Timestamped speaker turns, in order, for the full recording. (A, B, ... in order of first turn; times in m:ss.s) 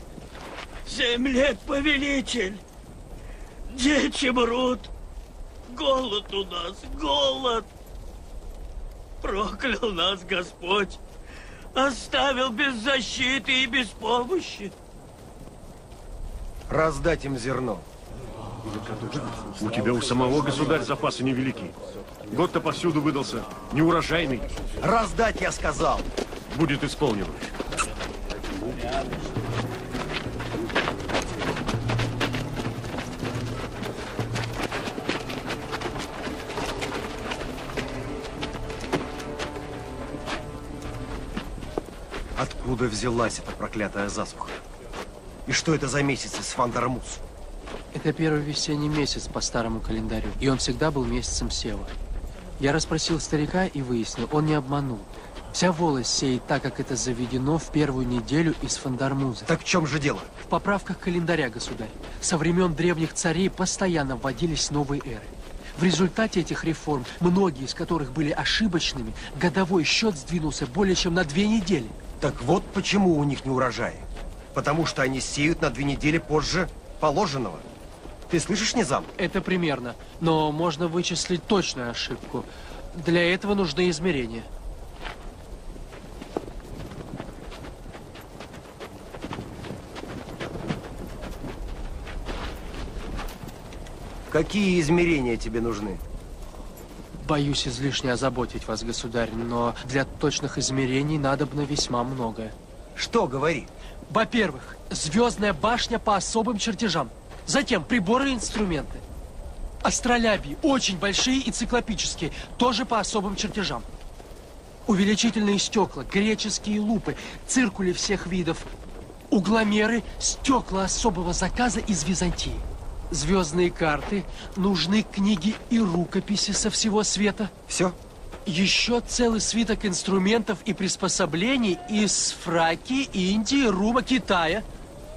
0:00.9-0:02.6 A
0:03.7-0:04.9 A
0:05.7-0:07.6 A
0:09.2-0:11.0 A
0:11.8-0:14.7 A
0:16.7-0:17.9 B
0:18.7-0:21.8 C
0:22.3-0:24.5 C
0:24.8-0:26.1 B
0:26.5-0:27.5 C
0:42.4-0:44.6 B
0:45.5-0:47.2 B
0:47.9-0:51.9 D
0:52.6-0:59.5 D
0:59.5-1:00.3 B
1:00.5-1:11.9 D
1:12.2-1:17.6 B
1:18.3-1:19.1 B
1:19.2-1:24.5 D
1:34.3-1:36.0 B
1:37.2-1:42.6 D
1:43.0-1:43.7 B
1:44.1-1:49.0 D
1:49.8-1:53.9 D
1:54.9-1:58.7 D
1:59.3-2:07.5 D
2:07.7-2:08.0 B
2:08.5-2:14.6 D